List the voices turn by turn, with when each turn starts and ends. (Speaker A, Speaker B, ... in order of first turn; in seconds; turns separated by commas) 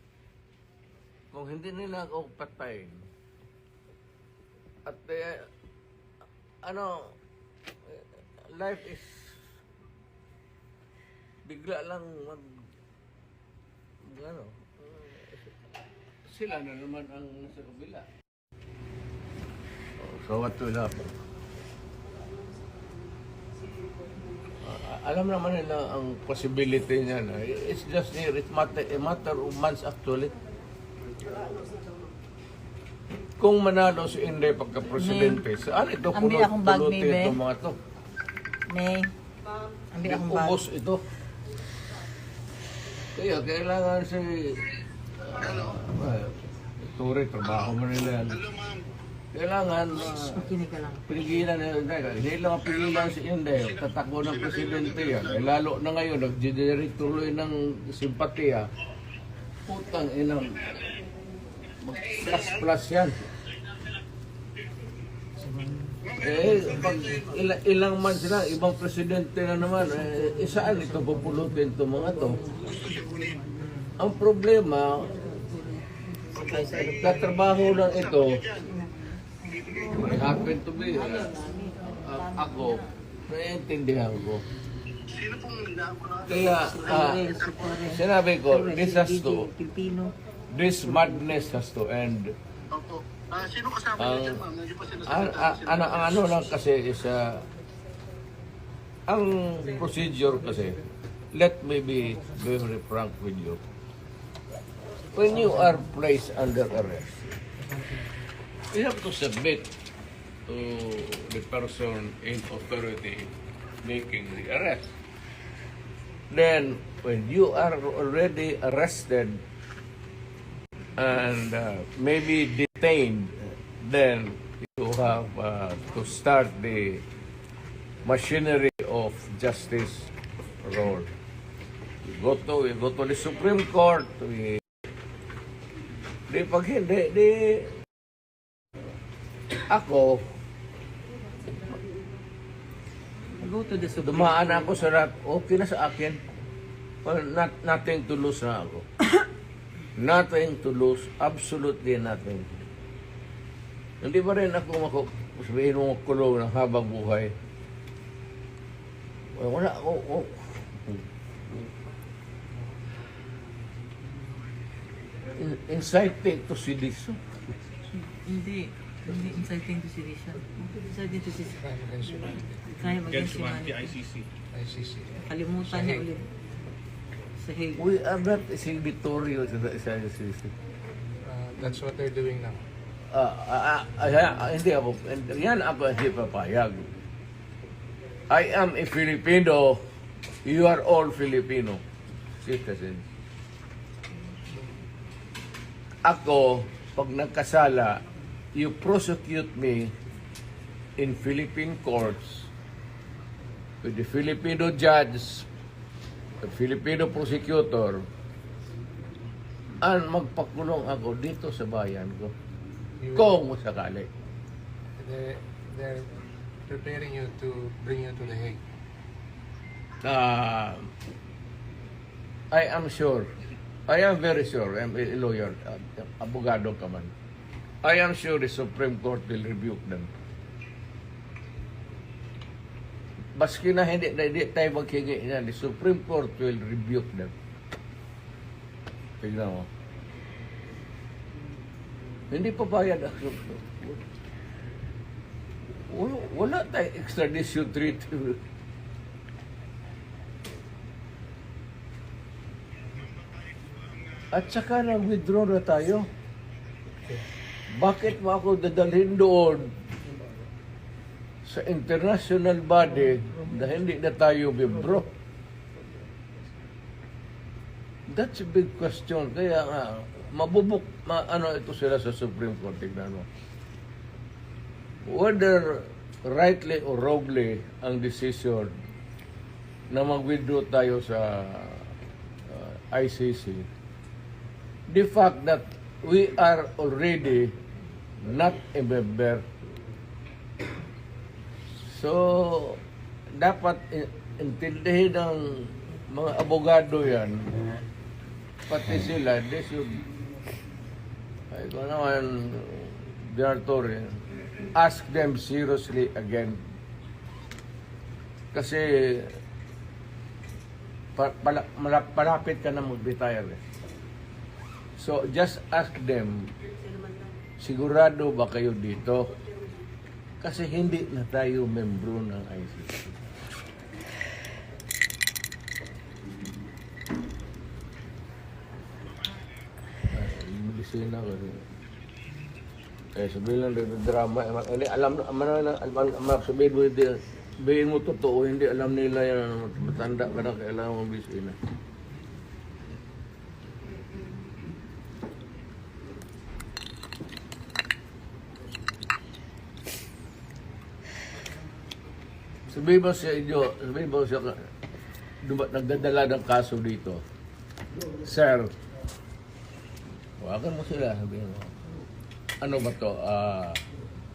Speaker A: 1.3-3.1, Speaker A: 4.9-5.5, Speaker A: 6.6-7.2, Speaker A: 7.9-9.4, Speaker A: 11.4-12.7, Speaker A: 14.0-15.6, Speaker A: 16.3-18.1, Speaker A: 20.0-21.1, Speaker A: 24.6-30.3, Speaker A: 33.4-37.8, Speaker B: 35.0-35.5, Speaker B: 36.1-37.4, Speaker B: 38.7-39.1, Speaker B: 39.9-40.6, Speaker A: 40.0-41.0, Speaker A: 43.1-48.5, Speaker A: 49.3-50.5, Speaker B: 50.0-51.0, Speaker A: 51.1-58.7, Speaker A: 59.7-61.0, Speaker A: 61.8-63.2, Speaker A: 66.1-72.5, Speaker A: 74.0-75.2, Speaker B: 76.2-77.1, Speaker A: 76.6-78.5, Speaker A: 79.8-84.4, Speaker B: 80.9-82.9, Speaker C: 85.1-86.2, Speaker A: 86.2-89.5, Speaker B: 86.5-90.1, Speaker A: 90.5-92.3, Speaker C: 92.7-93.9, Speaker A: 93.9-97.5, Speaker C: 94.5-95.0, Speaker A: 99.1-103.6, Speaker A: 105.1-107.4, Speaker A: 108.7-109.8, Speaker A: 110.5-114.9, Speaker A: 116.3-119.4, Speaker A: 121.0-127.0, Speaker A: 128.0-131.1, Speaker A: 132.0-134.6, Speaker A: 136.3-137.8, Speaker A: 139.7-140.2, Speaker B: 143.4-144.9, Speaker A: 144.0-146.2, Speaker A: 147.0-148.9, Speaker A: 149.9-152.7, Speaker A: 154.0-157.3, Speaker A: 159.3-161.0, Speaker A: 165.3-167.2, Speaker B: 167.9-171.8, Speaker D: 171.6-172.7, Speaker B: 172.6-174.0, Speaker C: 173.1-174.3, Speaker D: 174.5-176.1, Speaker B: 175.2-176.3, Speaker B: 177.4-177.8, Speaker A: 177.8-180.5, Speaker D: 181.2-182.6, Speaker A: 183.1-186.9, Speaker A: 188.3-189.8, Speaker A: 190.4-191.8, Speaker A: 192.4-193.1, Speaker A: 196.0-199.9, Speaker A: 201.0-202.5, Speaker A: 203.8-205.5, Speaker A: 206.4-208.1, Speaker A: 209.8-212.3, Speaker D: 213.0-213.3, Speaker A: 213.1-214.1, Speaker D: 215.0-218.6, Speaker A: 220.0-220.9, Speaker A: 222.5-223.3, Speaker A: 223.9-227.1, Speaker A: 227.8-230.1, Speaker A: 233.4-237.3, Speaker A: 239.2-239.7, Speaker A: 242.3-244.0, Speaker A: 245.9-248.4, Speaker A: 254.3-256.1, Speaker A: 257.7-259.7, Speaker A: 261.4-265.1, Speaker A: 268.1-273.3, Speaker A: 275.0-278.7, Speaker A: 279.9-281.9, Speaker A: 282.5-283.7, Speaker A: 284.9-287.6, Speaker A: 288.2-289.5, Speaker A: 291.8-292.8, Speaker A: 293.4-297.7, Speaker A: 298.7-300.0, Speaker A: 301.5-304.2, Speaker A: 304.8-306.6, Speaker A: 308.5-309.4, Speaker A: 311.2-313.6, Speaker A: 315.0-316.5, Speaker A: 317.6-319.4, Speaker A: 320.4-323.2, Speaker A: 330.1-331.6, Speaker A: 333.2-341.6, Speaker A: 352.7-354.6, Speaker A: 355.4-357.2, Speaker A: 358.2-358.7, Speaker A: 360.4-361.8, Speaker A: 362.6-363.8